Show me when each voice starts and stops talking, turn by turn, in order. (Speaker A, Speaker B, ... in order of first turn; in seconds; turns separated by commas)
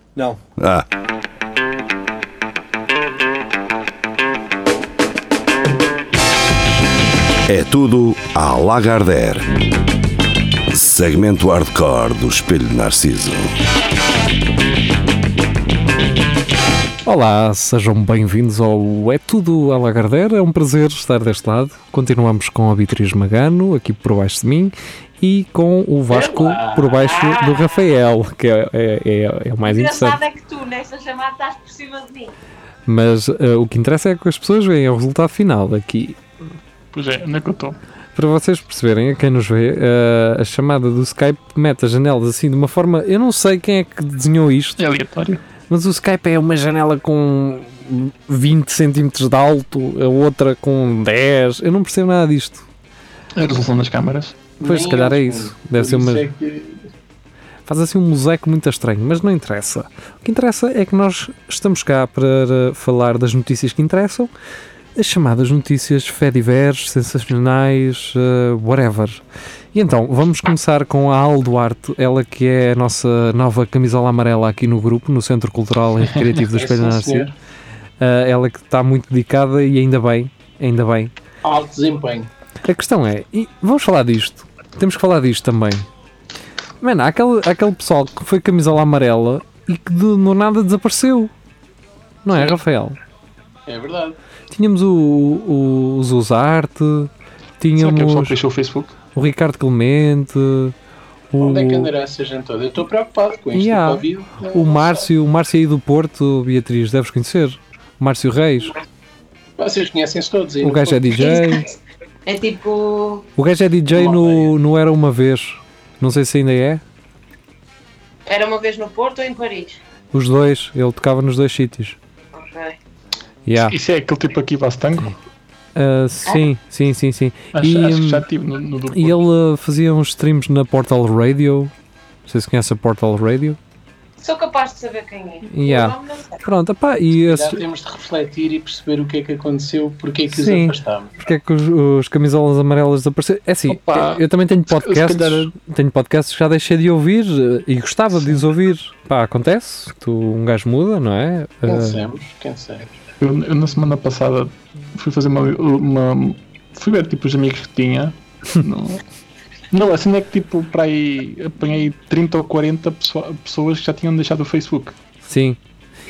Speaker A: 0.6-0.8, Speaker A: 7.5-9.5, Speaker A: 10.7-13.5, Speaker B: 17.1-30.2, Speaker C: 26.1-27.9, Speaker D: 26.3-26.9, Speaker C: 29.7-32.3, Speaker B: 32.9-36.2, Speaker E: 36.9-37.8, Speaker B: 38.2-44.8, Speaker E: 44.8-45.4, Speaker B: 45.7-52.7, Speaker E: 53.4-54.4, Speaker D: 54.6-56.9, Speaker B: 54.6-56.2, Speaker B: 57.7-64.3, Speaker B: 65.0-69.2, Speaker B: 69.7-77.3, Speaker D: 76.4-77.3, Speaker B: 78.0-81.1, Speaker D: 81.4-82.3, Speaker B: 82.6-85.9, Speaker B: 86.8-91.3, Speaker B: 92.2-93.0, Speaker D: 93.7-94.2, Speaker B: 94.5-98.4, Speaker E: 97.8-99.0, Speaker B: 99.2-100.8, Speaker B: 101.3-101.9, Speaker D: 101.4-105.0, Speaker B: 103.5-108.7, Speaker D: 109.6-111.4, Speaker B: 110.6-111.7, Speaker C: 111.2-111.7, Speaker C: 112.3-113.2, Speaker B: 113.4-116.8, Speaker D: 113.9-114.5, Speaker C: 118.3-119.8, Speaker B: 120.1-122.0, Speaker C: 122.3-122.8, Speaker B: 123.5-123.8, Speaker E: 123.6-125.2, Speaker B: 125.8-128.2, Speaker E: 127.5-129.2, Speaker B: 128.9-131.7, Speaker B: 132.3-133.6, Speaker C: 134.2-136.4, Speaker B: 135.5-137.6, Speaker D: 137.1-141.1, Speaker B: 140.3-152.0, Speaker E: 143.7-145.5, Speaker D: 151.6-152.9, Speaker E: 153.2-159.0, Speaker E: 159.7-164.9, Speaker B: 165.2-165.6